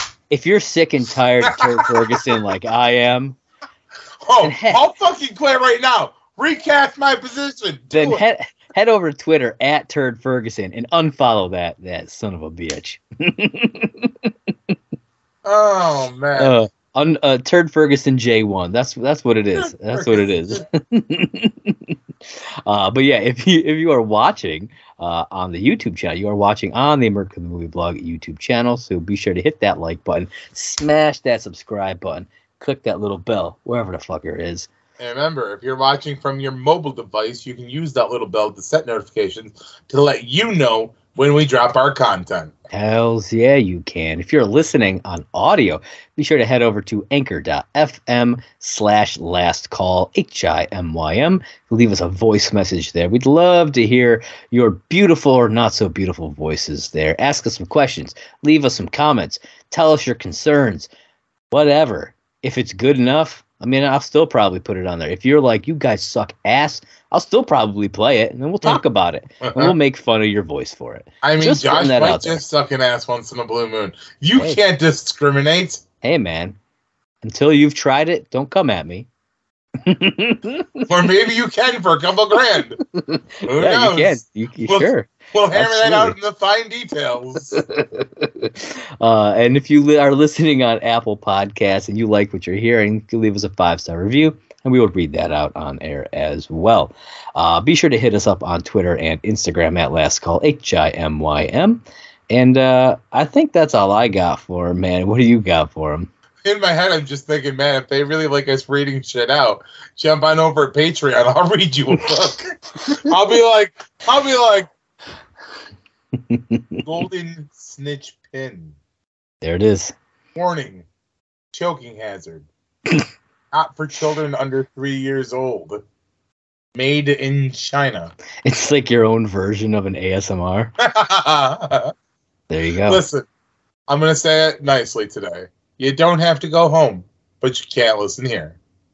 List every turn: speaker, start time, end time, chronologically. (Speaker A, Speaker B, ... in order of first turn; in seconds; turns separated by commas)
Speaker A: 0.3-3.4, Speaker B: 1.4-2.2, Speaker B: 4.2-8.2, Speaker A: 4.4-4.8, Speaker A: 7.9-14.3, Speaker B: 15.4-16.5, Speaker A: 16.4-21.9, Speaker B: 19.6-20.6, Speaker A: 22.6-34.7, Speaker B: 35.0-42.5, Speaker A: 42.7-60.9, Speaker A: 61.5-72.4, Speaker B: 69.4-69.7, Speaker B: 71.2-75.8, Speaker A: 76.0-76.6, Speaker A: 77.2-79.1, Speaker A: 79.8-80.8, Speaker B: 80.9-82.8, Speaker A: 83.0-86.2, Speaker B: 83.4-87.6, Speaker A: 87.5-106.1, Speaker B: 106.4-114.7, Speaker A: 116.1-116.8, Speaker B: 116.8-118.8, Speaker A: 119.4-119.9, Speaker B: 120.3-120.8, Speaker B: 121.5-122.5, Speaker B: 123.5-125.8, Speaker B: 126.7-128.1, Speaker A: 128.4-130.7, Speaker B: 130.8-131.9, Speaker A: 132.5-133.0, Speaker B: 132.8-133.2, Speaker B: 133.9-138.5